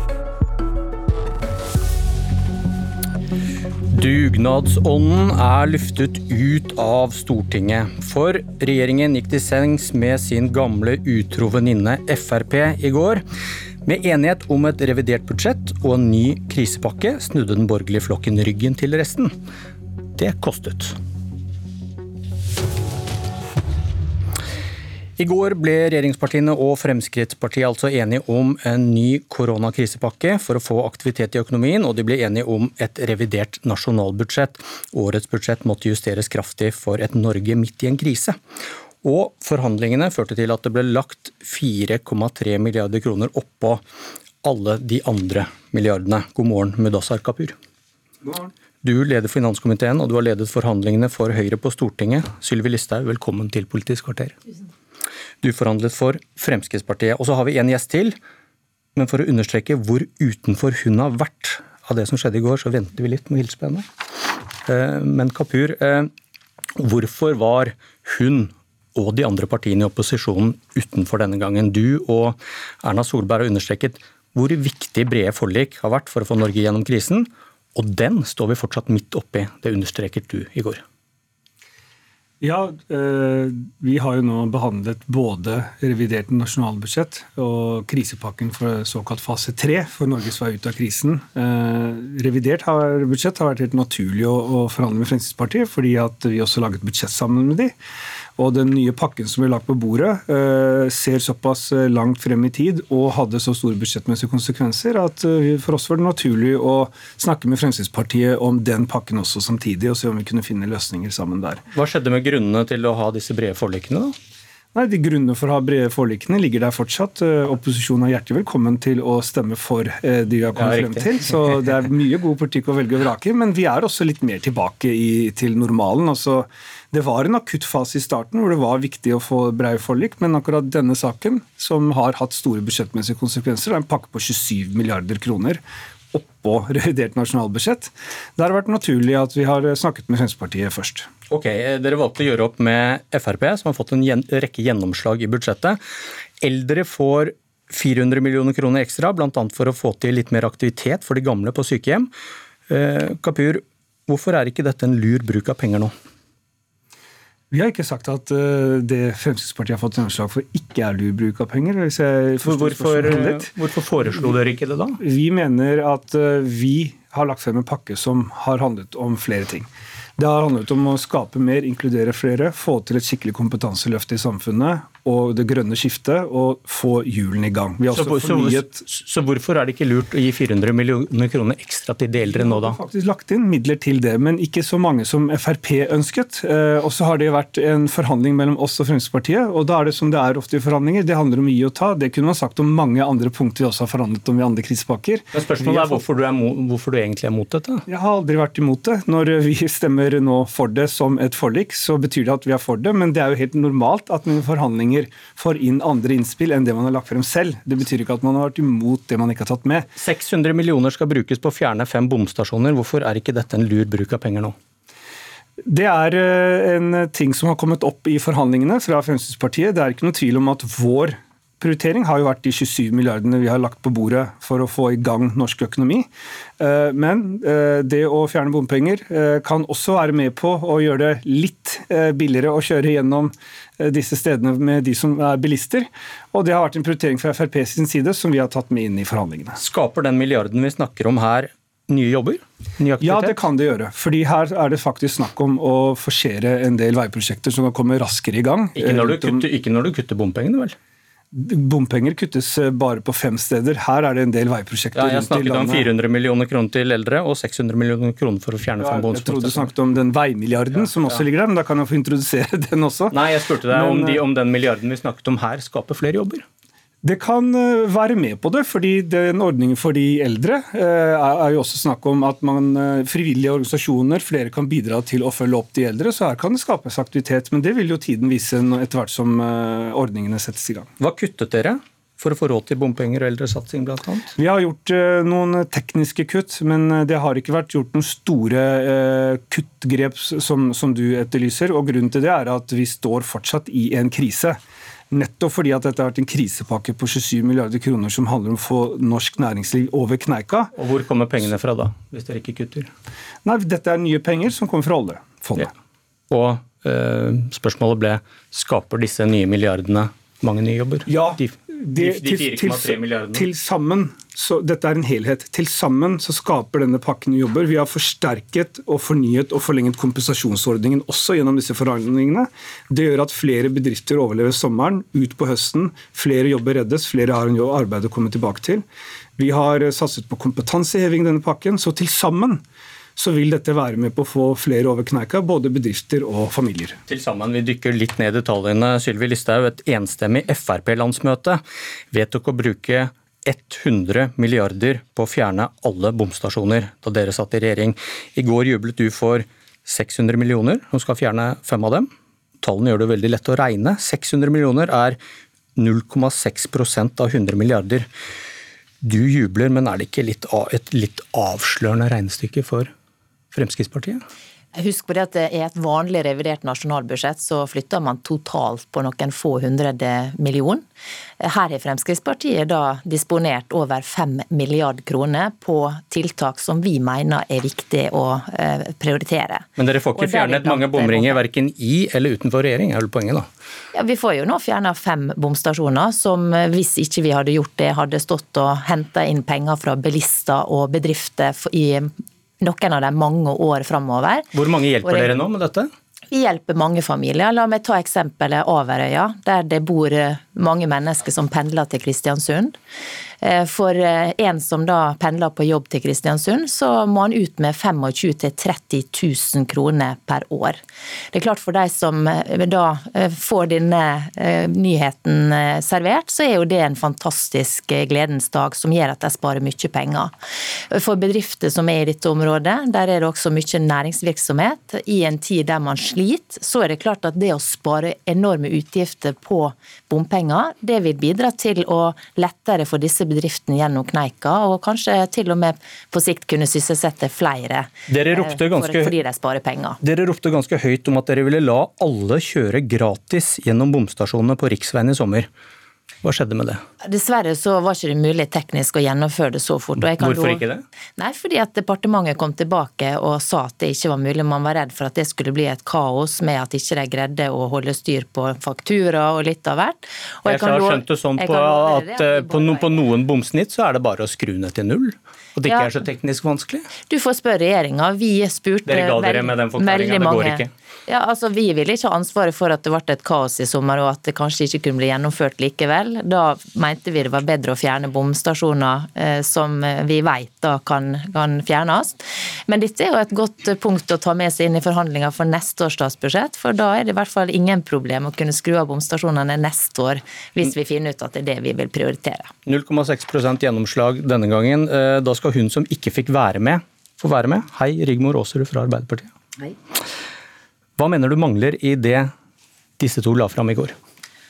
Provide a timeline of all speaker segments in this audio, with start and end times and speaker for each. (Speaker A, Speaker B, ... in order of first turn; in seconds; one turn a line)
Speaker A: 3.9-13.2
Speaker A: 13.8-19.3
Speaker A: 20.1-20.9
Speaker A: 25.2-38.4
Speaker A: 39.0-43.8
Speaker A: 44.4-47.5
Speaker B: 48.2-48.5
Speaker A: 48.8-54.4
Speaker A: 55.4-58.1
Speaker A: 59.0-63.8
Speaker A: 64.7-66.1
Speaker A: 66.8-80.8
Speaker B: 82.4-97.7
Speaker B: 98.4-111.6
Speaker A: 111.7-114.1
Speaker B: 114.7-135.6
Speaker A: 120.5-121.2
Speaker B: 136.1-141.1
Speaker A: 141.3-145.8
Speaker A: 146.4-152.1
Speaker A: 152.7-155.9
Speaker B: 157.5-163.5
Speaker A: 162.4-165.0
Speaker B: 165.0-178.7
Speaker A: 177.9-182.8
Speaker B: 182.2-196.0
Speaker A: 195.3-197.8
Speaker B: 197.9-209.9
Speaker A: 210.0-214.5
Speaker B: 215.7-226.1
Speaker B: 226.6-239.6
Speaker A: 239.6-243.4
Speaker B: 243.0-249.5
Speaker A: 248.8-250.7
Speaker B: 251.3-255.9
Speaker A: 254.9-259.7
Speaker B: 258.8-264.2
Speaker A: 260.8-261.2
Speaker A: 263.1-266.4
Speaker B: 267.0-280.9
Speaker A: 281.0-284.3
Speaker B: 284.4-294.6
Speaker B: 295.1-300.7
Speaker A: 300.8-302.9
Speaker B: 303.4-305.7
Speaker A: 306.3-313.4
Speaker B: 311.1-328.8
Speaker B: 329.4-332.6
Speaker B: 333.1-337.0
Speaker A: 337.1-341.6
Speaker A: 342.1-352.1
Speaker A: 352.6-355.2
Speaker A: 355.8-358.1
Speaker A: 359.0-362.9
Speaker A: 363.5-364.2
Speaker C: 364.7-370.8
Speaker C: 371.4-381.4
Speaker A: 379.8-383.5
Speaker C: 383.9-394.5
Speaker A: 394.5-395.9
Speaker C: 395.0-395.3
Speaker C: 396.3-402.7
Speaker C: 403.4-410.8
Speaker C: 411.3-420.3
Speaker C: 420.9-440.0
Speaker A: 438.1-439.1
Speaker A: 440.0-445.5
Speaker A: 446.2-446.8
Speaker C: 447.0-450.6
Speaker A: 450.2-450.8
Speaker C: 451.2-463.0
Speaker A: 460.4-466.9
Speaker C: 465.6-465.9
Speaker C: 467.1-492.5
Speaker A: 468.9-470.7
Speaker A: 492.6-499.3
Speaker A: 501.0-502.3
Speaker A: 503.0-503.9